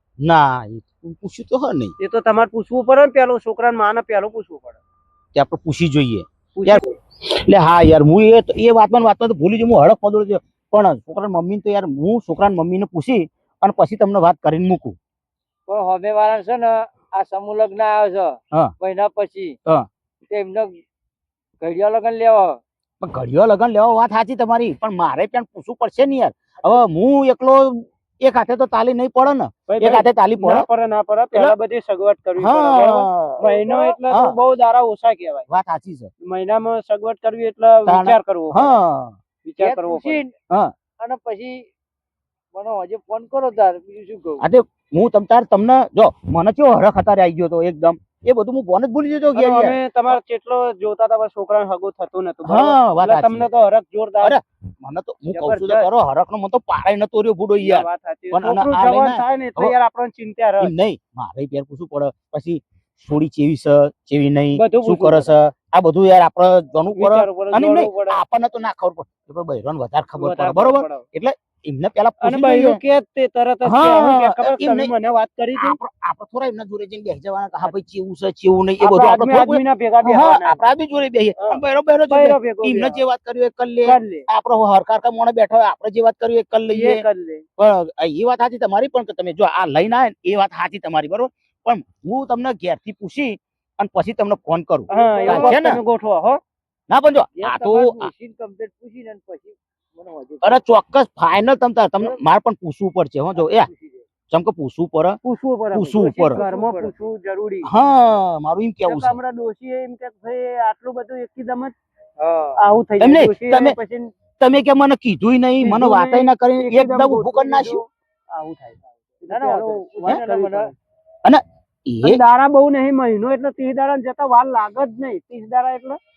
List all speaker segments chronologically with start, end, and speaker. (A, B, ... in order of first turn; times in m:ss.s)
0:00.2-0:02.0 A
0:02.0-0:04.8 B
0:05.4-0:15.0 A
0:06.6-0:06.9 B
0:15.7-0:19.6 C
0:20.3-0:20.7 C
0:21.6-0:22.6 C
0:23.0-0:30.7 A
0:29.7-0:35.5 B
0:32.4-0:33.4 A
0:33.4-0:33.9 C
0:35.5-0:36.1 A
0:36.2-0:38.8 B
0:37.9-0:39.2 A
0:39.4-0:40.2 B
0:39.6-0:40.3 C
0:41.0-0:41.6 C
0:42.5-0:44.4 C
0:44.4-0:49.8 A
0:49.4-0:54.4 B
0:52.4-0:53.5 A
0:54.2-0:59.7 A
0:55.3-0:55.9 B
0:57.6-1:00.7 B
1:00.6-1:12.8 A
1:04.6-1:05.3 B
1:07.0-1:08.2 B
1:10.2-1:11.0 B
1:12.2-1:15.8 B
1:13.6-1:14.9 A
1:15.6-1:27.0 A
1:18.8-1:20.7 B
1:21.4-1:23.0 B
1:23.8-1:24.3 B
1:26.7-1:27.4 B
1:27.6-1:35.8 A
1:34.9-1:35.6 C
1:34.9-1:36.4 B
1:36.9-1:38.1 A
1:37.4-1:40.6 C
1:40.4-1:43.7 A
1:43.4-1:44.1 C
1:44.3-1:45.2 A
1:45.2-1:47.7 B
1:45.7-1:46.4 A
1:46.3-1:46.9 C
1:47.6-1:49.2 A
1:48.9-1:51.7 B
1:52.2-1:52.6 C
1:52.6-1:54.1 B
1:53.0-1:53.8 A
1:54.4-1:57.8 A
1:55.6-2:00.7 B
1:59.3-2:00.7 C
2:01.2-2:02.2 A
2:02.0-2:06.0 B